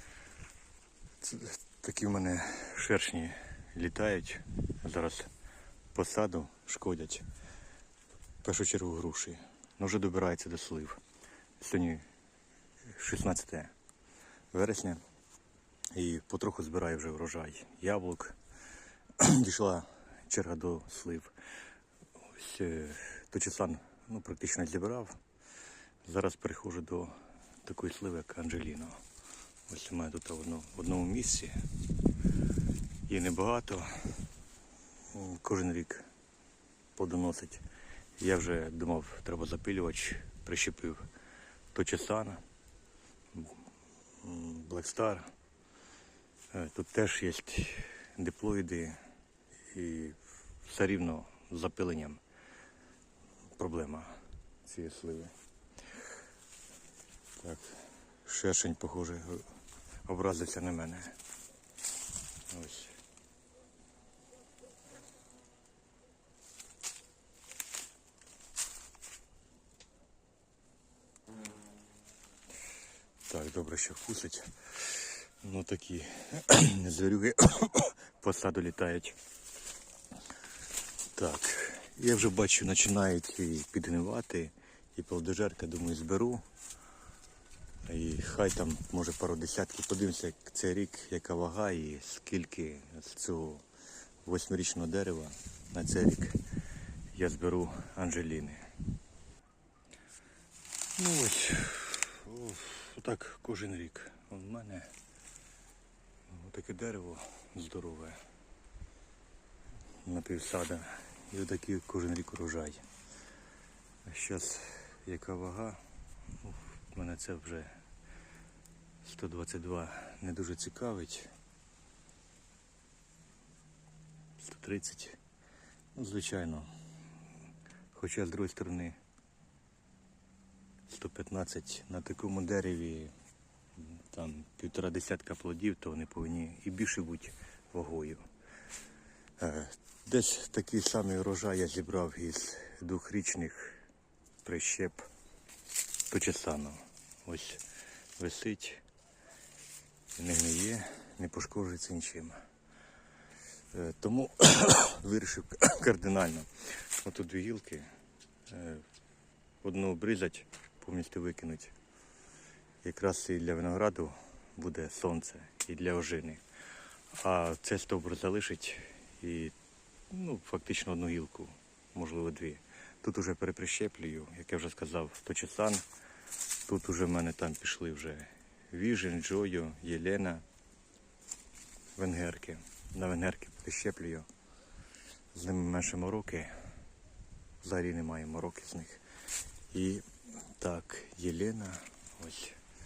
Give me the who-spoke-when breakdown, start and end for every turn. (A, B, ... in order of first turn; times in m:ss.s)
0:01.2-0:05.3 A
0:05.9-0:07.2 A
0:08.4-0:11.0 A
0:11.6-0:12.0 A
0:12.9-0:13.7 A
0:14.5-0:15.0 A
0:15.9-0:18.4 A
0:19.2-0:21.3 A
0:22.3-0:25.2 A
0:26.0-0:29.0 A
0:29.7-0:31.6 A
0:33.1-0:34.2 A
0:35.1-0:36.1 A
0:37.0-0:37.6 A
0:38.2-0:41.1 A
0:41.7-0:42.4 A
0:44.2-0:45.3 A
0:46.5-0:49.0 A
0:49.7-0:52.2 A
0:53.6-0:55.3 A
0:57.4-0:59.5 A
1:00.0-1:01.2 A
1:02.5-1:02.9 A
1:13.3-1:19.2 A
1:21.1-1:26.4 A
1:27.8-1:33.6 A
1:34.2-1:36.4 A
1:37.1-1:38.6 A
1:41.0-1:44.9 A
1:46.3-1:48.2 A
1:50.0-1:52.8 A
1:54.0-1:55.8 A
1:56.4-1:57.8 A
1:59.0-2:01.3 A
2:04.4-2:05.2 A
2:05.9-2:06.7 A
2:07.9-2:09.0 A
2:10.9-2:13.1 A
2:13.8-2:18.3 A
2:19.4-2:23.8 A
2:24.4-2:25.0 A
2:26.1-2:27.6 A
2:28.2-2:28.8 A
2:30.1-2:32.4 A
2:33.7-2:37.9 A
2:38.5-2:38.8 A
2:39.6-2:41.7 A
2:42.8-2:46.4 A
2:47.1-2:49.5 A
2:50.1-2:55.8 A
2:56.6-3:00.4 A
3:02.0-3:04.3 A
3:05.3-3:06.5 A
3:07.6-3:09.0 A
3:09.7-3:12.6 A